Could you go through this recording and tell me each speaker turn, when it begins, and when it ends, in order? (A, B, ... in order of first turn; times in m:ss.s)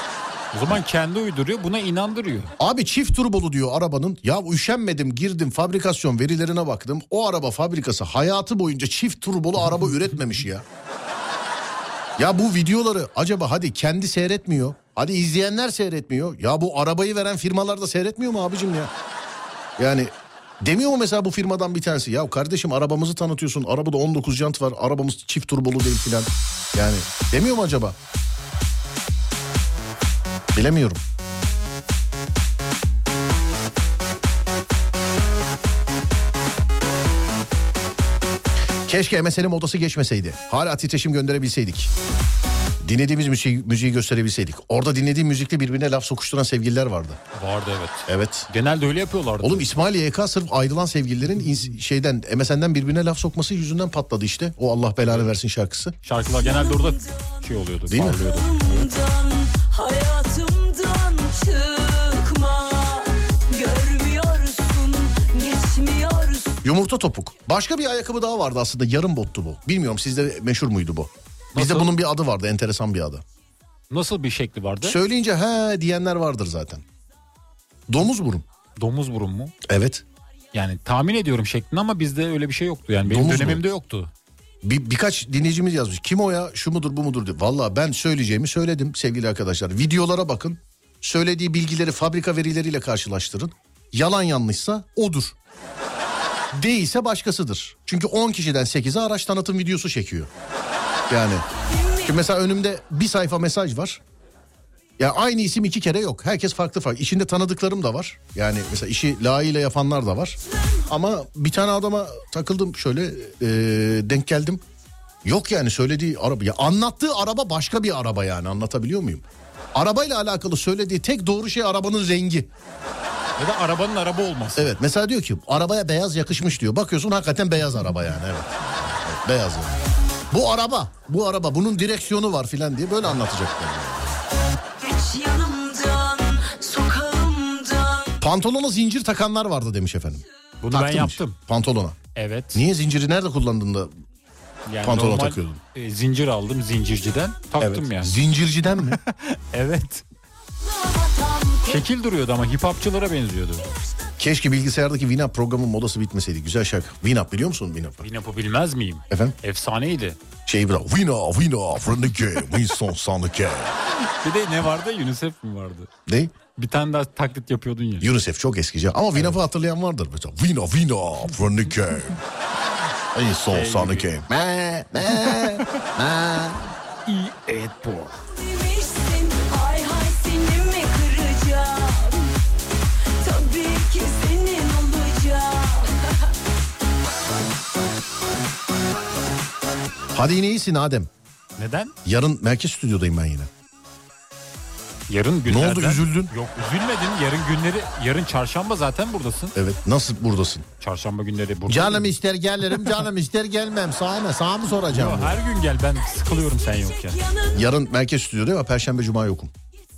0:00.5-0:02.5 A
0:02.6-0:10.6 B
0:12.2-0:18.9 B
0:19.8-0:28.0 B
0:30.5-0:31.0 B
0:38.8-0:41.9 B
0:42.8-0:47.2 B
0:47.3-0:49.7 A
0:48.1-0:48.5 B
0:49.4-0:56.0 B
0:56.0-0:58.9 A
0:56.4-0:57.3 C
0:57.9-0:58.2 B
0:58.2-1:06.6 C
1:06.6-1:13.2 B
1:11.6-1:12.0 A
1:13.9-1:15.0 A
1:14.8-1:16.8 B
1:17.9-1:18.4 B
1:18.8-1:19.5 A
1:19.6-1:20.0 B
1:20.5-1:24.1 A
1:23.0-1:23.6 B
1:24.6-1:35.4 B
1:36.5-1:40.3 B
1:41.1-1:41.5 B
1:41.6-1:42.1 C
1:42.0-1:44.0 B
1:45.0-1:54.6 B
1:55.2-2:02.5 B
2:03.4-2:04.7 A
2:04.6-2:09.8 B
2:10.3-2:14.2 B
2:14.8-2:18.2 C
2:18.2-2:22.0 B
2:20.6-2:21.4 A
2:22.2-2:22.7 A
2:22.5-2:24.0 B
2:24.7-2:28.2 A
2:24.8-2:25.6 B
2:27.6-2:29.0 B
2:28.9-2:30.0 A
2:30.8-2:31.7 C
2:31.7-2:33.7 A
2:34.2-2:38.0 B
2:38.0-2:40.2 A
2:39.1-2:39.4 B
2:40.5-2:43.7 B
2:43.9-2:45.9 A
2:46.1-2:46.3 B
2:46.6-2:48.1 A
2:48.0-2:52.2 B
2:53.1-2:56.7 B
2:53.5-2:54.1 A
2:55.2-2:55.9 A
2:57.1-2:58.1 A
2:58.2-3:02.3 C
3:03.2-3:06.1 C
3:10.1-3:11.1 B
3:11.6-3:12.0 A
3:12.0-3:13.5 B
3:15.1-3:19.6 A
3:15.5-3:16.3 B
3:19.6-3:20.7 B
3:20.8-3:22.1 A
3:21.7-3:25.4 B
3:24.9-3:27.2 A
3:27.2-3:27.6 C
3:27.5-3:29.5 B